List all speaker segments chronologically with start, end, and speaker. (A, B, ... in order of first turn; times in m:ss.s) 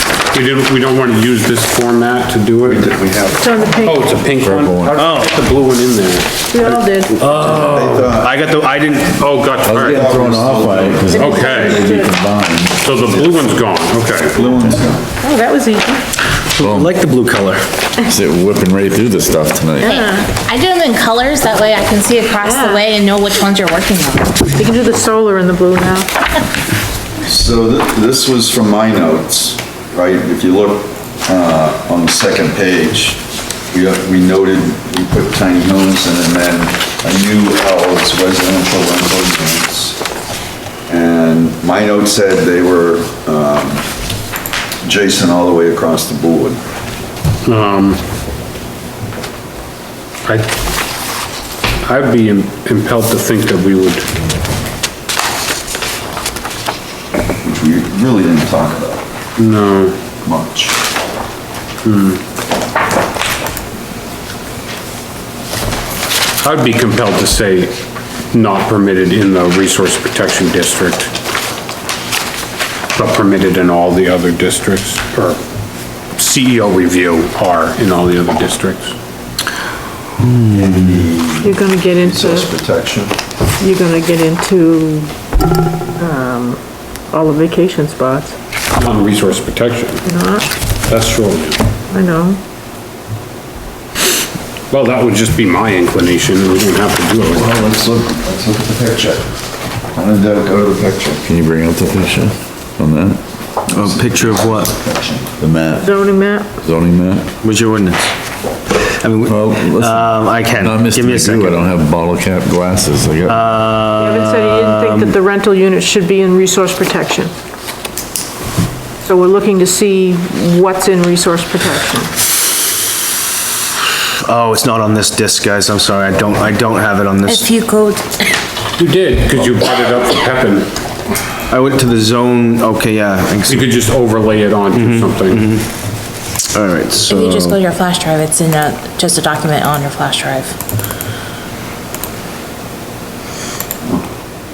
0:00.3-0:08.1 A
0:02.6-0:03.6 B
0:03.3-0:04.2 C
0:04.4-0:05.0 D
0:05.0-0:05.4 E
0:06.5-0:07.2 C
0:07.2-0:08.0 D
0:07.4-0:08.3 B
0:08.0-0:09.2 E
0:09.2-0:10.3 A
0:09.6-0:12.8 D
0:09.7-0:11.7 B
0:11.1-0:12.1 C
0:11.2-0:11.9 A
0:12.8-0:14.4 A
0:13.0-0:13.5 B
0:14.3-0:15.1 B
0:15.2-0:16.1 C
0:16.5-0:17.6 E
0:16.6-0:16.9 D
0:18.0-0:19.9 D
0:19.8-0:24.4 F
0:22.4-0:22.8 C
0:24.6-0:26.1 C
0:27.2-0:40.0 B
0:40.9-0:43.9 B
0:44.8-0:46.6 B
0:47.4-0:48.0 A
0:50.2-0:50.5 A
0:51.8-0:54.1 A
0:57.4-0:59.0 B
0:59.4-0:59.9 A
1:00.2-1:00.8 B
1:01.8-1:02.2 A
1:06.4-1:07.8 A
1:08.3-1:11.1 A
1:12.9-1:15.4 A
1:16.2-1:18.9 A
1:20.2-1:20.9 E
1:20.5-1:23.2 B
1:21.4-1:22.5 C
1:23.6-1:25.1 C
1:26.0-1:26.6 C
1:27.1-1:28.3 C
1:28.8-1:30.0 A
1:30.0-1:30.5 C
1:30.9-1:31.6 A
1:31.9-1:32.4 C
1:34.7-1:37.6 A
1:37.3-1:39.2 B
1:39.9-1:41.2 B
1:41.2-1:43.2 D
1:43.7-1:45.9 B
1:43.7-1:44.7 E
1:45.8-1:46.5 C
1:46.6-1:47.3 D
1:47.4-1:48.1 E
1:48.8-1:51.6 E
1:49.2-1:53.6 D
1:53.3-1:55.2 E
1:54.0-1:57.3 C
1:59.0-2:02.1 C
2:04.2-2:07.5 E
2:07.2-2:08.1 F
2:08.8-2:10.7 A
2:11.5-2:13.7 E
2:13.5-2:15.5 A
2:14.7-2:15.6 E
2:16.5-2:17.6 E
2:17.0-2:20.5 F